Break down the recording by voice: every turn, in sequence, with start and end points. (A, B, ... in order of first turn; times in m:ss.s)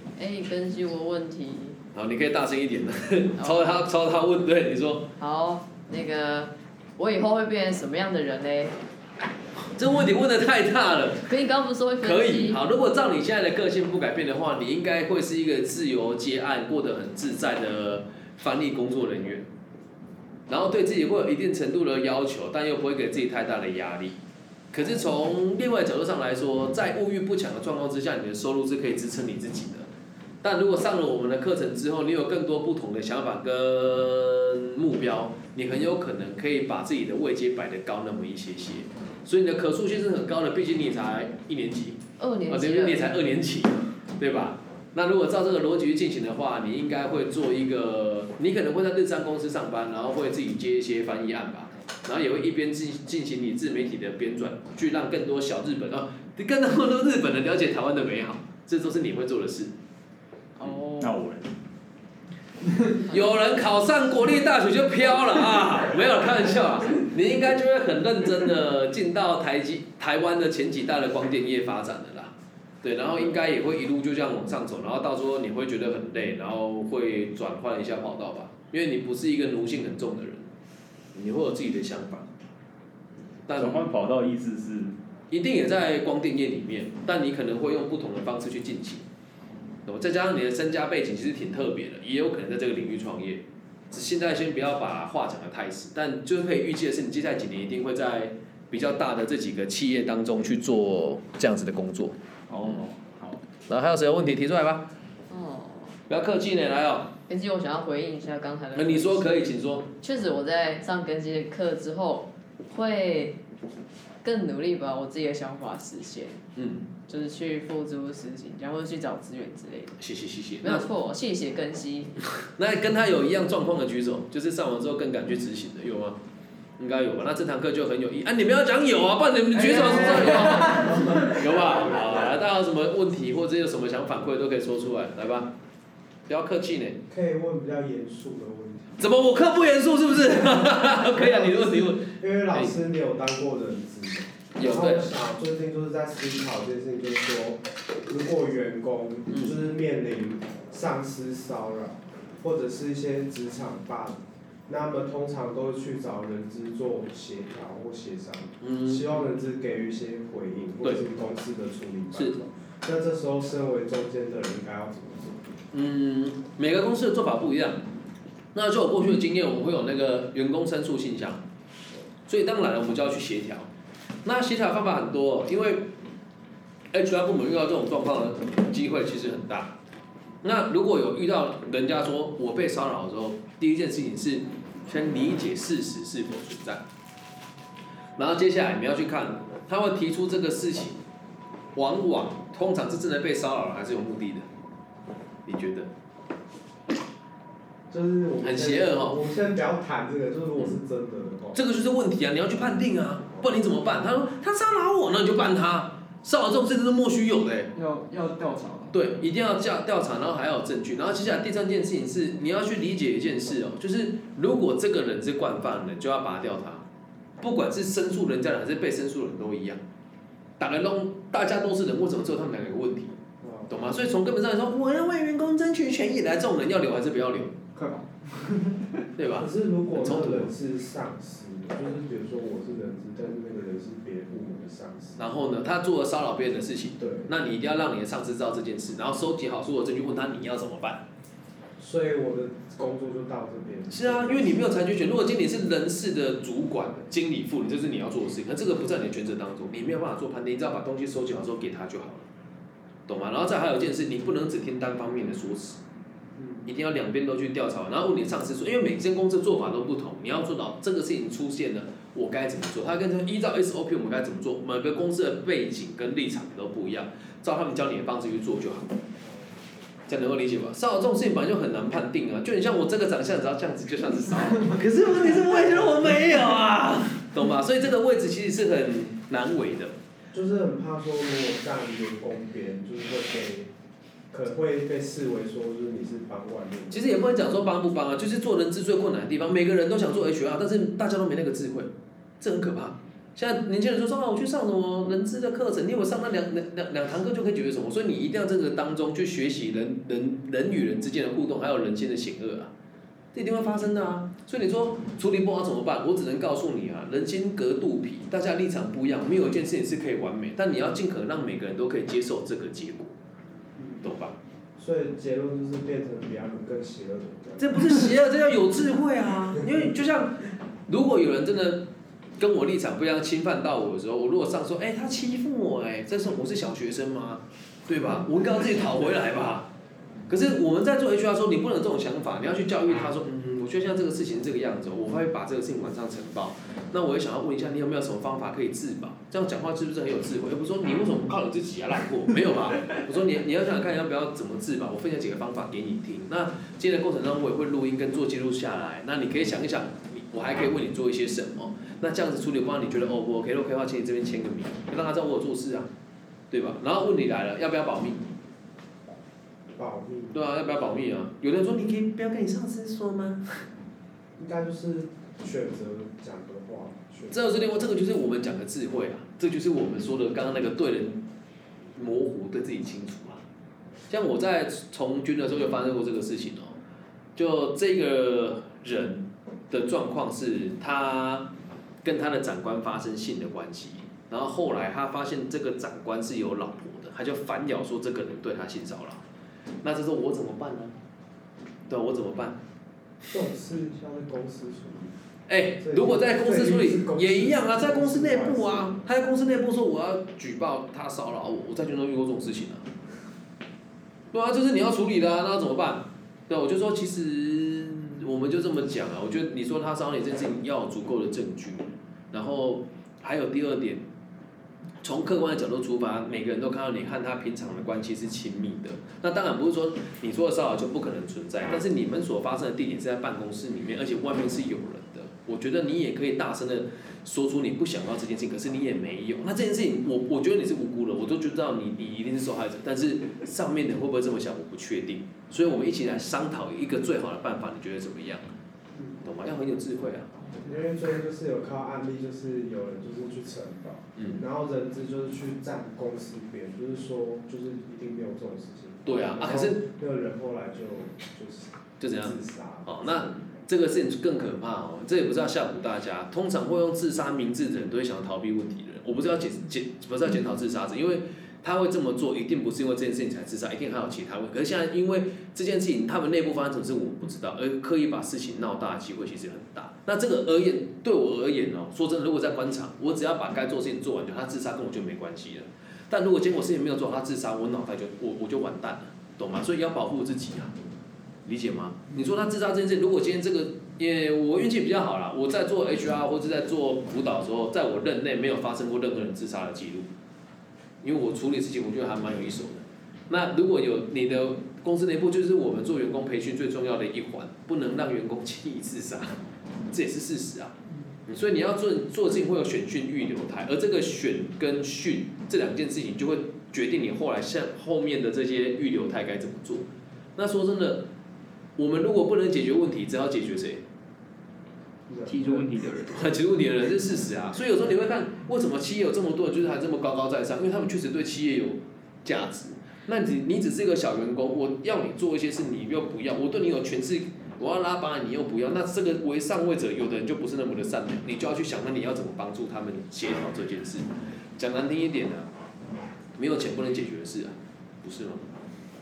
0:00.2-0:01.8 A
0:01.9-0:05.1 B
0:05.2-0:08.8 A
0:09.6-0:11.3 B
0:11.2-0:12.6 A
0:12.0-0:19.5 B
0:20.5-0:24.2 B
0:24.7-0:29.9 B
0:30.4-0:59.7 B
0:42.2-0:43.1 A
1:00.6-1:01.1 A
1:00.6-1:01.5 C
1:03.1-1:20.5 B
1:21.1-1:22.3 B
1:23.5-1:23.8 B
1:23.5-1:24.9 C
1:25.3-1:29.0 B
1:29.8-1:42.8 B
1:42.5-1:43.4 C
1:43.7-1:44.9 B
1:45.3-1:46.0 A
1:46.1-1:47.1 B
1:47.3-1:53.4 A
1:48.7-1:49.9 B
1:54.2-1:56.4 A
1:56.5-1:56.9 B
1:57.1-2:00.0 A
2:00.0-2:00.9 B
2:00.6-2:02.1 A
2:02.4-2:06.2 B
2:06.8-2:15.5 B
2:09.5-2:11.6 D
2:10.8-2:11.6 E
2:16.3-2:17.0 B
2:17.1-2:18.9 E
2:19.0-2:22.7 B
2:20.4-2:45.4 E
2:24.5-2:25.1 B
2:29.3-2:29.6 B
2:38.6-2:39.0 B
2:45.7-2:47.8 B
2:48.5-2:51.4 B
2:52.3-2:53.7 B
2:54.2-2:55.9 B
2:56.9-2:59.8 B
3:00.4-3:06.8 B
3:08.2-3:11.0 B
3:11.7-3:14.4 B
3:15.4-3:15.9 B
3:17.9-3:21.6 E
3:18.4-3:19.2 B
3:21.5-3:27.7 B
3:27.7-3:29.0 D
3:28.9-3:36.8 B
3:37.4-3:39.8 B
3:40.6-3:43.1 B
3:43.4-3:43.7 E
3:43.7-3:47.5 B
3:47.7-3:48.9 D
3:49.2-3:50.5 B
3:49.3-3:55.2 E
3:55.2-4:01.0 B
3:57.0-3:57.3 E
4:01.8-4:04.6 E
4:03.9-4:12.3 B
4:13.1-4:15.8 B
4:16.4-4:16.6 E
4:16.6-4:28.9 B
4:30.1-4:39.9 B
4:40.3-4:43.7 E
4:44.3-4:47.1 E
4:46.9-5:02.7 B
5:03.3-5:13.1 B
5:13.8-5:14.1 E
5:14.0-5:14.3 B
5:14.8-5:18.1 E
5:17.6-5:21.8 B
5:22.4-5:29.7 B
5:30.3-5:55.9 B
5:56.5-5:58.2 B
5:59.8-6:00.4 E
6:00.3-6:03.6 B
6:04.4-6:07.4 E
6:07.3-6:11.2 B
6:11.9-6:13.4 B
6:14.1-6:16.8 B
6:17.4-6:21.5 B
6:22.0-6:29.2 B
6:29.8-6:31.0 B
6:31.9-6:32.6 B
6:33.3-6:35.1 E
6:35.5-6:42.9 B
6:35.8-6:39.0 E
6:44.3-6:54.0 B
6:55.0-7:18.4 B
7:19.2-7:20.3 B
7:20.6-7:33.3 E
7:24.2-7:24.4 B
7:29.0-7:29.8 B
7:32.0-8:00.7 B
8:01.4-8:10.1 B
8:11.0-8:19.4 B
8:19.9-8:20.7 B
8:21.2-8:31.0 B
8:31.8-8:33.8 B
8:35.1-8:35.7 E
8:35.4-8:36.0 C
8:35.4-8:54.0 B
8:54.6-8:55.5 B
8:56.4-8:58.5 B